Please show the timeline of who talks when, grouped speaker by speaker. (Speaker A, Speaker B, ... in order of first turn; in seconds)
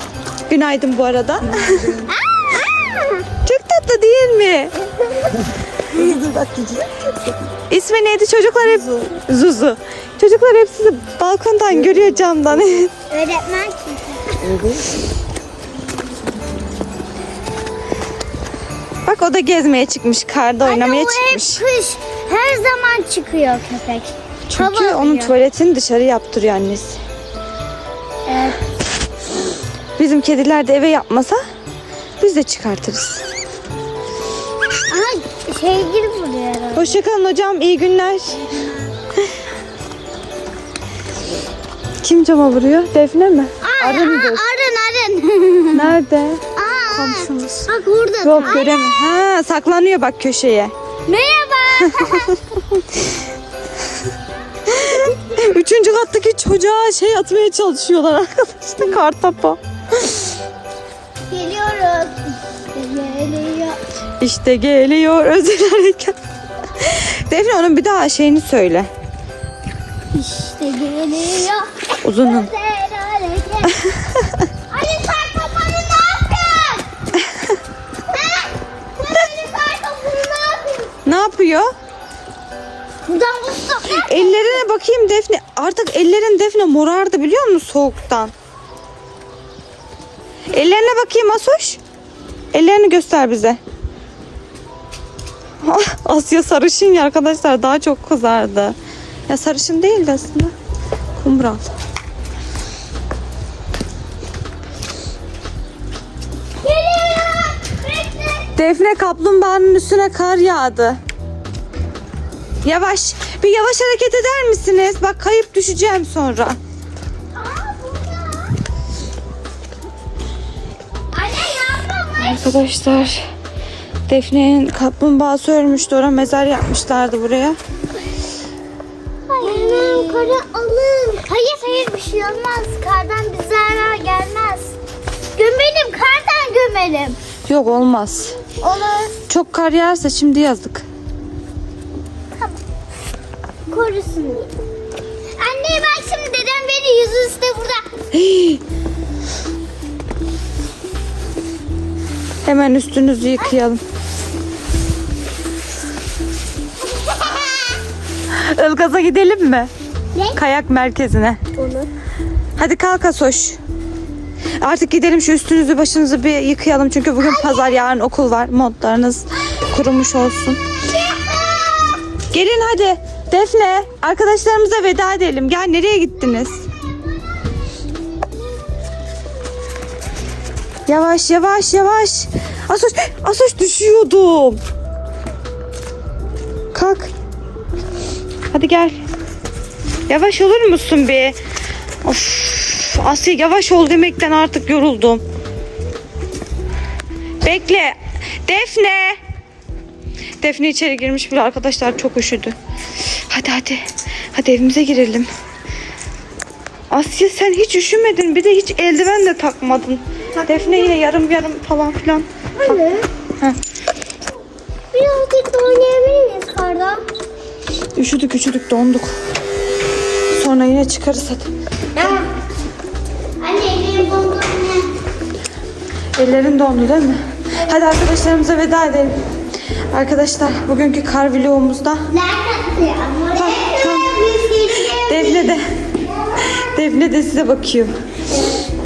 Speaker A: 0.5-2.1, 3.5-4.7, 6.0-6.5, 7.7-12.9, 19.1-21.6, 24.5-27.0, 30.0-31.4, 32.2-33.3, 36.7-38.5, 42.0-44.5, 45.7-47.7, 48.2-50.7, 51.8-53.0, 54.7-59.6, 64.2-66.2, 66.7-68.9, 72.0-72.5, 73.9-74.4, 81.0-81.7, 83.9-88.3, 90.5-91.8, 92.5-93.6, 95.6-98.8, 99.3-100.5, 101.2-101.7, 108.6-111.0, 112.6-116.6, 122.2-123.2, 124.1-127.6, 137.5-138.4, 139.3-140.9, 148.1-148.6, 152.4-153.8, 158.3-159.7, 160.3-161.4, 162.6-163.6, 164.6-170.6, 172.3-176.6, 180.9-184.6, 186.7-187.1, 188.5-189.0, 190.1-191.4, 192.0-195.2, 197.4-199.2, 200.4-202.6, 203.1-205.3, 206.9-213.6, 218.0-219.1, 220.3-221.5, 226.2-229.2, 229.9-232.0, 233.3-234.4, 234.9-235.7, 236.4-237.9
Speaker B: 2.0-3.2, 13.1-14.6, 20.6-25.4, 28.3-28.6, 34.9-37.0, 43.6-46.0, 46.6-49.2, 51.1-52.4, 54.8-55.4, 61.3-62.2, 62.7-63.8, 70.1-74.0, 74.7-76.9, 78.1-81.0, 83.0-84.6, 106.6-108.5, 117.4-118.5, 121.1-122.6, 129.3-134.8, 135.4-137.2, 138.6-139.2, 143.7-144.5, 145.4-147.9, 156.9-157.8, 160.1-160.4, 161.6-161.9, 171.1-171.9, 210.4-210.9, 212.6-213.1, 214.9-217.0, 222.0-222.3, 223.4-224.9, 232.1-235.6